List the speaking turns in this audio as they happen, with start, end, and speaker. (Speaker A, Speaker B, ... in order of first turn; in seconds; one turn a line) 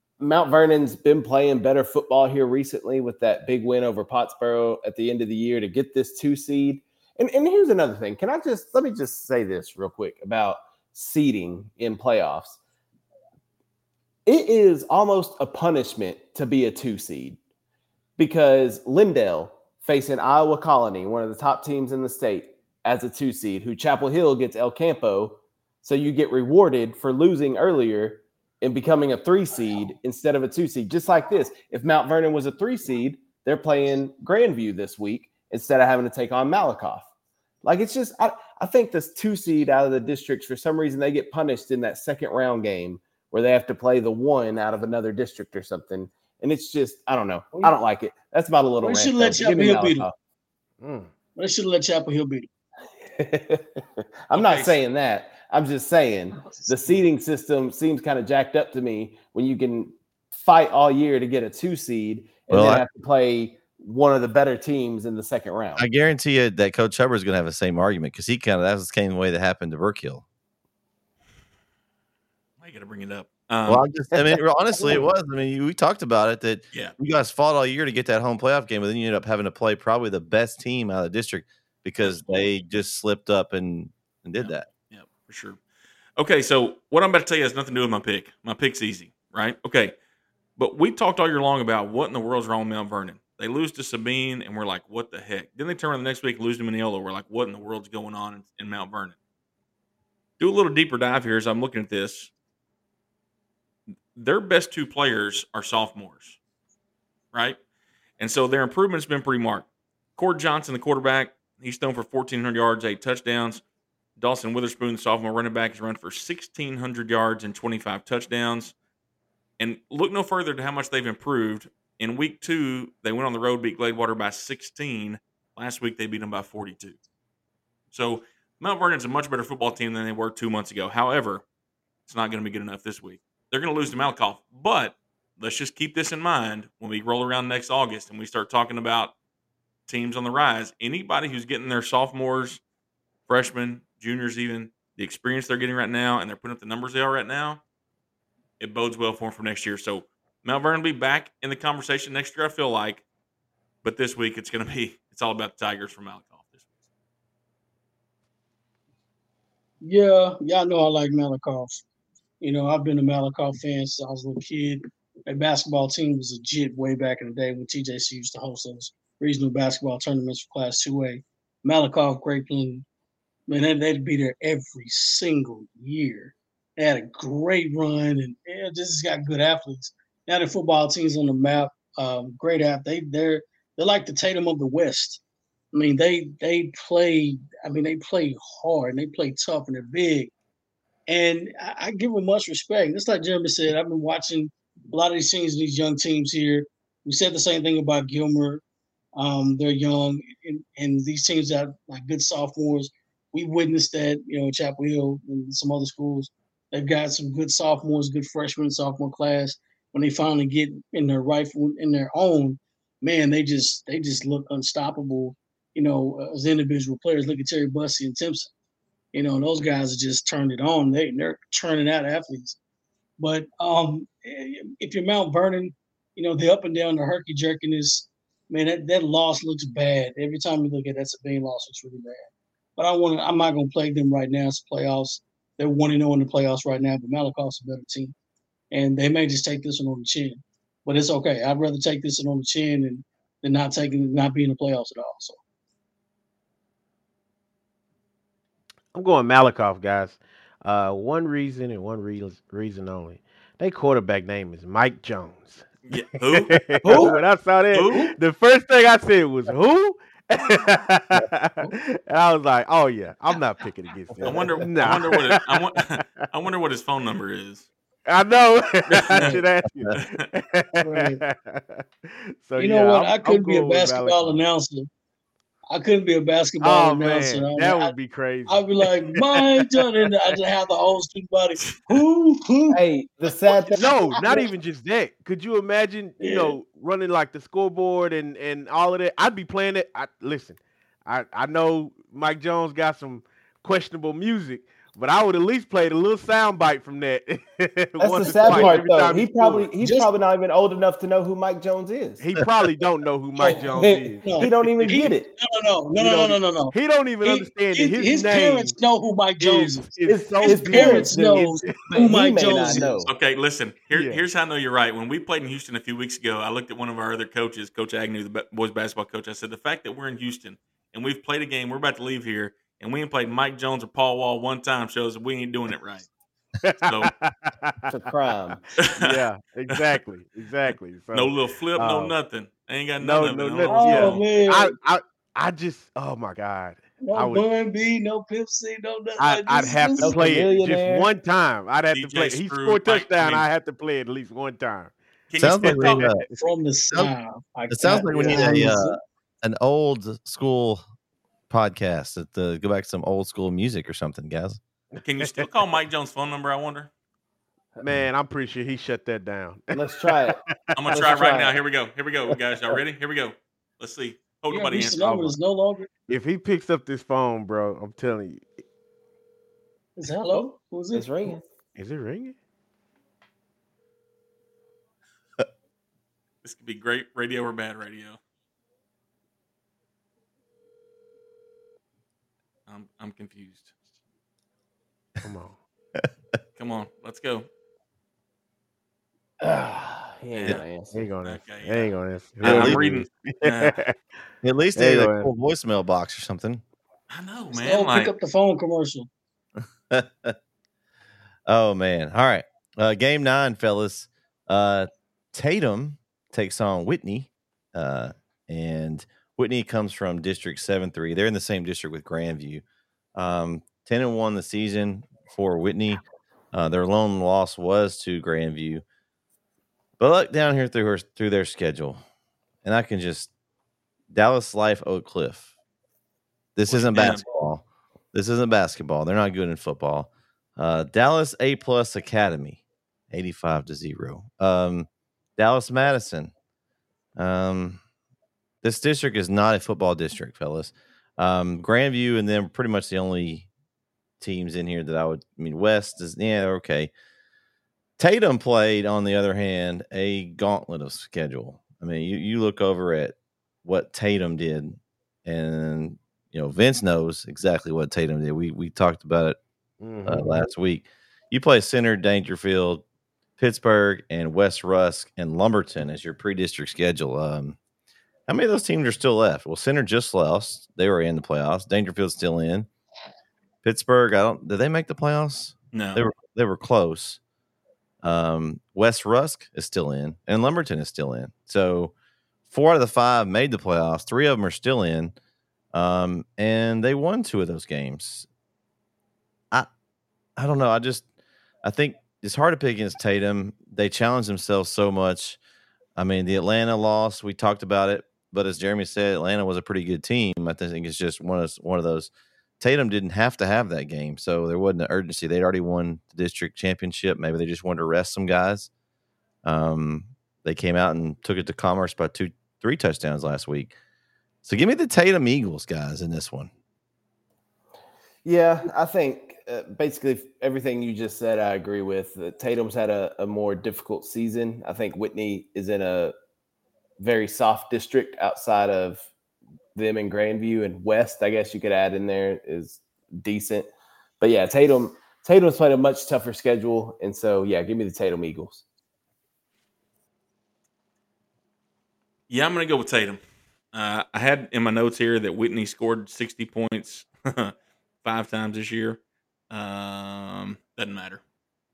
Speaker A: 0.2-12.6
Speaker A: 14.3-17.4
Speaker A: 18.2-37.1
Speaker A: 37.6-50.1
Speaker B: 48.8-50.1
Speaker C: 50.8-51.1
Speaker B: 51.4-52.5
Speaker A: 53.1-65.8
Speaker D: 54.3-54.8
Speaker E: 62.5-62.9
Speaker E: 65.8-70.2
Speaker D: 72.6-73.9
Speaker E: 73.7-84.7
Speaker D: 82.0-82.5
Speaker D: 84.4-85.6
Speaker D: 86.2-90.0
Speaker D: 90.6-99.2
Speaker D: 100.4-102.3
Speaker D: 104.2-106.4
Speaker D: 107.3-107.6
Speaker D: 108.2-113.6
Speaker D: 114.2-118.8
Speaker D: 119.6-127.0
Speaker D: 127.9-131.4
Speaker D: 132.1-139.1
Speaker D: 139.9-142.6
Speaker D: 143.3-147.6
Speaker D: 148.6-153.1
Speaker D: 153.8-156.7
Speaker B: 159.8-161.8
Speaker B: 162.4-172.9
Speaker B: 173.5-185.2
Speaker B: 185.7-190.3
Speaker B: 191.1-198.6
Speaker B: 199.2-218.5
Speaker B: 219.1-222.6
Speaker B: 223.2-238.2
Speaker B: 238.7-245.4
Speaker C: 248.9-255.7
Speaker D: 255.9-257.2
Speaker C: 256.3-266.2
Speaker A: 256.9-257.1
Speaker D: 257.7-258.1
Speaker D: 264.2-267.7
Speaker C: 268.1-274.4
Speaker D: 268.9-269.4
Speaker D: 270.0-270.3
Speaker B: 270.8-271.2
Speaker B: 272.6-274.9
Speaker B: 275.7-277.9
Speaker C: 276.6-280.4
Speaker B: 278.5-282.8
Speaker A: 282.7-284.3
Speaker C: 283.7-299.7
Speaker B: 284.2-284.5
Speaker B: 286.2-286.6
Speaker A: 298.0-302.3
Speaker B: 298.2-298.8
Speaker B: 299.8-300.1
Speaker C: 302.2-304.9
Speaker B: 303.4-303.6
Speaker A: 303.8-305.3
Speaker B: 304.2-313.1
Speaker C: 306.0-308.8
Speaker C: 309.4-312.0
Speaker A: 310.1-313.1
Speaker C: 312.5-312.9
Speaker D: 313.1-326.1
Speaker C: 313.9-314.2
Speaker C: 326.6-332.2
Speaker D: 326.8-327.1
Speaker A: 327.9-328.6
Speaker D: 328.8-329.9
Speaker D: 331.1-334.2
Speaker C: 333.0-337.4
Speaker B: 333.7-334.8
Speaker B: 337.0-340.4
Speaker C: 339.2-346.4
Speaker A: 340.0-341.1
Speaker D: 341.9-343.4
Speaker D: 345.3-346.1
Speaker E: 345.4-346.3
Speaker B: 346.4-349.0
Speaker E: 347.7-350.8
Speaker C: 348.3-348.6
Speaker E: 351.5-354.6
Speaker D: 355.0-356.9
Speaker C: 355.2-355.5
Speaker C: 357.8-361.3
Speaker A: 359.7-360.4
Speaker D: 360.8-365.0
Speaker A: 360.9-361.6
Speaker B: 364.5-365.9
Speaker C: 365.0-365.4
Speaker C: 366.1-368.6
Speaker B: 370.0-371.4
Speaker A: 370.9-371.4
Speaker C: 371.8-372.4
Speaker D: 376.4-378.2
Speaker D: 382.7-383.8
Speaker C: 385.2-385.6
Speaker D: 386.6-387.5
Speaker A: 389.4-391.0
Speaker D: 390.4-390.6
Speaker C: 390.9-393.9
Speaker D: 391.2-393.8
Speaker E: 392.4-392.8
Speaker E: 394.4-396.6
Speaker C: 394.8-395.3
Speaker D: 397.1-398.1
Speaker B: 397.5-399.1
Speaker E: 399.9-400.4
Speaker E: 401.5-412.6
Speaker E: 413.1-418.8
Speaker E: 420.0-422.0
Speaker E: 422.6-423.3
Speaker E: 424.1-425.5
Speaker E: 426.6-436.3
Speaker D: 426.7-427.2
Speaker E: 437.2-437.8
Speaker E: 438.6-443.5
Speaker E: 444.2-446.9
Speaker E: 448.0-459.4
Speaker C: 459.8-460.4
Speaker E: 460.1-462.9
Speaker E: 463.4-467.6
Speaker E: 468.3-472.7
Speaker E: 473.6-477.2
Speaker D: 475.7-476.0
Speaker E: 478.0-481.9
Speaker E: 482.5-485.1
Speaker E: 485.7-488.3
Speaker E: 490.4-491.1
Speaker E: 491.6-495.4
Speaker E: 496.0-508.7
Speaker E: 509.4-513.8
Speaker E: 514.4-516.5
Speaker A: 518.2-526.1
Speaker A: 527.0-529.1
Speaker A: 529.8-533.7
Speaker A: 534.2-538.6
Speaker D: 542.3-543.2
Speaker D: 543.7-549.0
Speaker D: 549.5-551.2